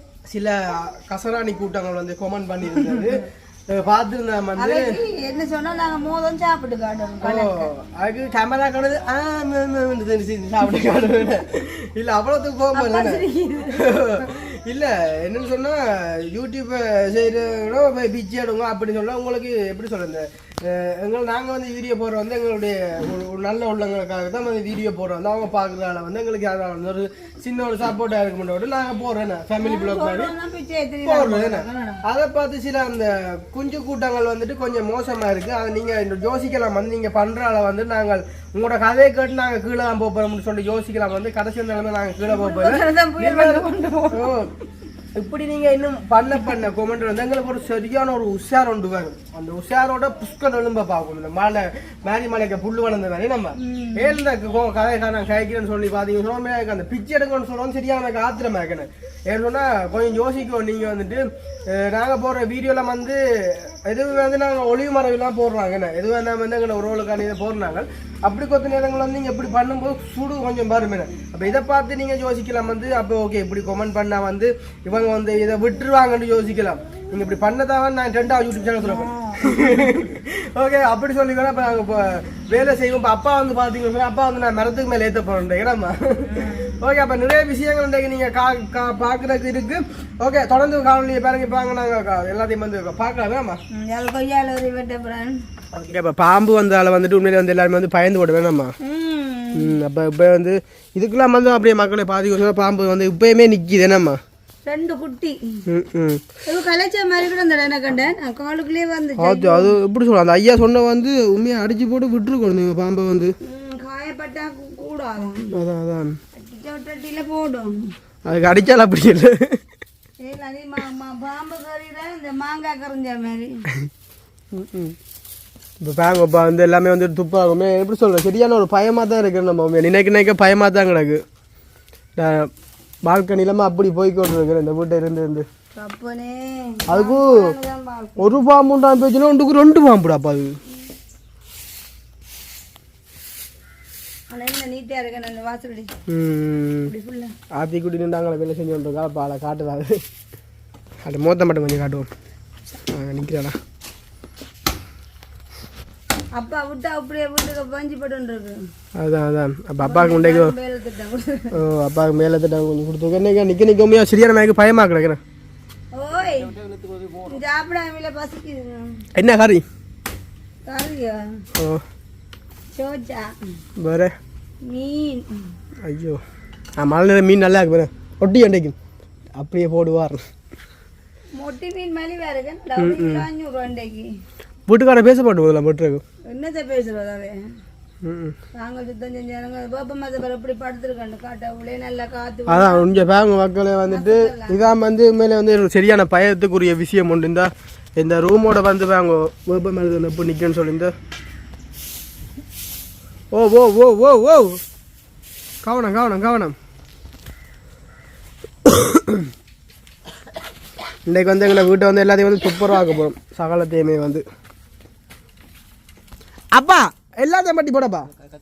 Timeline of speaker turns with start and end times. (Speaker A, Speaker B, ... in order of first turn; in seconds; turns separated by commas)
Speaker A: 0.3-4.9, Speaker B: 2.8-3.1, Speaker B: 4.6-7.7, Speaker A: 7.2-13.2, Speaker B: 12.7-14.1, Speaker A: 13.7-30.3, Speaker B: 29.6-32.0, Speaker A: 31.1-44.5, Speaker B: 42.3-44.3, Speaker A: 45.1-93.6, Speaker B: 53.6-54.2, Speaker B: 78.8-80.0, Speaker B: 86.3-86.8, Speaker B: 93.8-95.3, Speaker A: 95.7-98.7, Speaker B: 98.8-99.8, Speaker A: 99.5-104.2, Speaker B: 104.7-105.6, Speaker A: 105.7-106.2, Speaker B: 106.5-109.8, Speaker A: 109.2-113.3, Speaker B: 113.4-115.5, Speaker A: 115.5-116.2, Speaker B: 116.4-117.7, Speaker A: 118.2-119.6, Speaker B: 120.2-123.7, Speaker A: 124.5-125.0, Speaker A: 125.8-131.2, Speaker A: 132.2-132.5, Speaker A: 133.0-135.5, Speaker B: 135.8-138.4, Speaker A: 136.9-137.5, Speaker A: 138.2-140.5, Speaker B: 144.3-145.9, Speaker A: 146.1-146.9, Speaker B: 146.9-147.3, Speaker A: 147.6-150.0, Speaker A: 151.0-152.1, Speaker A: 152.9-153.6, Speaker B: 156.4-158.6, Speaker A: 159.0-160.5, Speaker B: 159.8-161.6, Speaker A: 161.5-165.2, Speaker B: 165.9-166.6, Speaker B: 167.2-169.0, Speaker A: 169.2-169.6, Speaker B: 170.7-171.2, Speaker A: 171.6-171.8, Speaker B: 172.7-173.3, Speaker A: 173.8-174.1, Speaker B: 174.7-175.3, Speaker A: 175.8-176.2, Speaker A: 176.8-178.8, Speaker A: 179.4-180.2, Speaker B: 181.3-184.1, Speaker A: 182.8-183.2, Speaker A: 184.7-186.0, Speaker B: 186.3-187.3, Speaker A: 188.0-188.3, Speaker B: 188.6-193.0, Speaker A: 192.5-200.9, Speaker B: 193.9-194.6, Speaker A: 203.3-204.6, Speaker A: 205.6-206.6, Speaker A: 208.7-209.2, Speaker A: 211.1-214.2, Speaker A: 216.5-218.1